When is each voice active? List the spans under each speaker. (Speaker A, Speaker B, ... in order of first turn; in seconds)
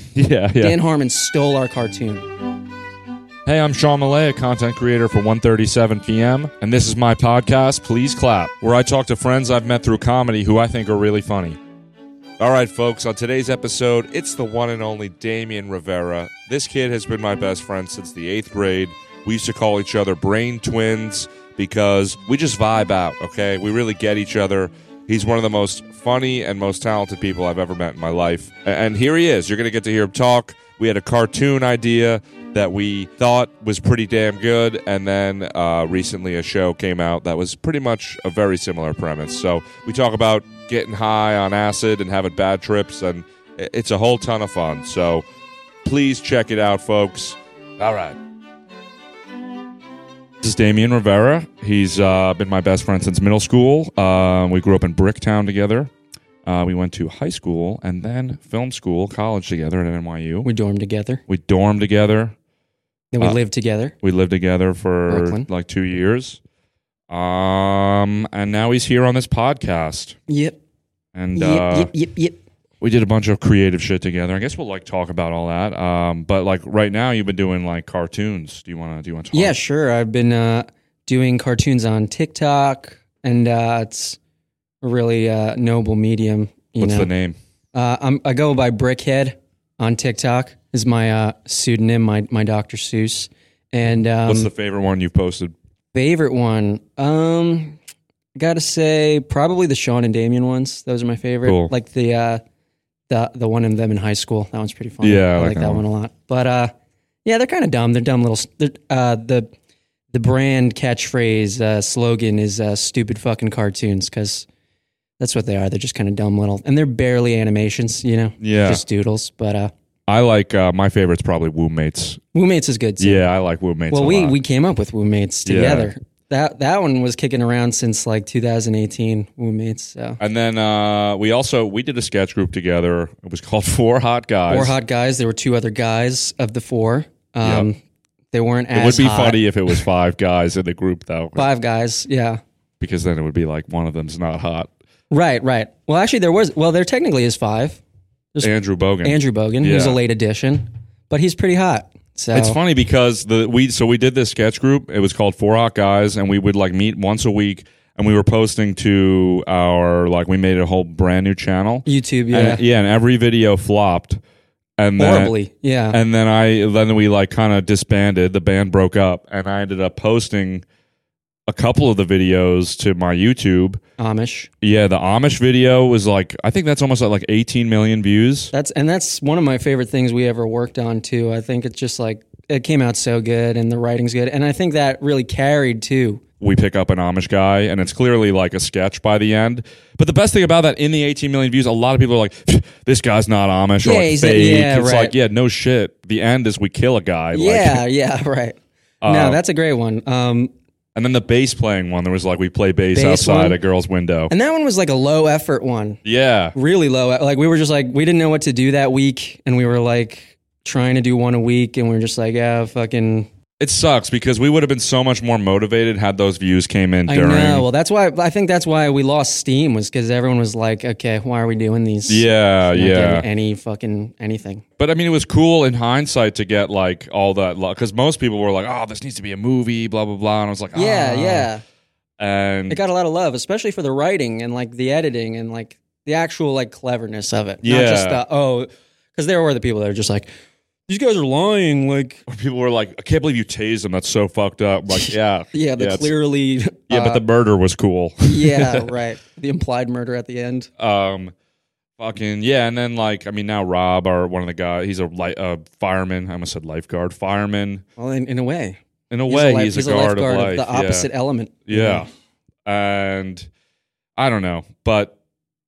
Speaker A: 0.1-0.8, 3.5-11.6, 12.4-45.2, 45.8-48.2, 50.4-55.9, 56.4-60.5, 61.3-62.4, 64.0-66.4, 67.1-70.2, 71.1-71.9, 72.8-79.5, 86.8-87.4, 94.3-95.5, 101.4-101.7, 105.0-105.8, 118.4-118.8, 120.1-122.2, 123.0-124.4, 125.5-125.9, 130.2-134.7, 138.7-141.5, 142.8-144.7, 148.4-150.0, 152.3-164.2, 164.8-165.3, 165.9-170.7, 171.5-173.8, 174.6-178.5, 186.4-197.8, 199.0-199.4, 200.9-204.3, 206.1-206.5, 213.6-217.7, 222.1-223.3, 224.8-231.5, 232.2-232.8, 237.6-238.2, 242.3-246.1, 246.9-248.9, 250.8-251.3, 252.0-257.8, 259.1-261.1, 261.7-262.1, 262.7-263.5, 264.2-265.1
Speaker B: 0.6-2.3, 60.5-61.2, 63.1-64.0, 65.1-65.5, 70.3-70.6, 71.3-72.4, 79.3-84.2, 84.8-87.1, 87.7-94.5, 95.9-97.8, 98.3-102.4, 103.1-106.7, 107.2-109.5, 110.1-114.5, 115.2-119.7, 122.3-123.2, 123.9-130.2, 134.5-137.8, 138.3-139.8, 141.4-142.4, 145.1-147.8, 149.0-152.6, 161.8-162.6, 165.0-166.0, 174.0-174.5, 178.5-186.2, 193.8-195.1, 197.3-200.5, 202.9-203.6, 204.3-206.0, 206.5-213.3, 217.1-224.6, 230.7-231.6, 232.7-240.3, 240.9-242.2, 244.9-247.2, 248.2-250.7, 258.0-262.1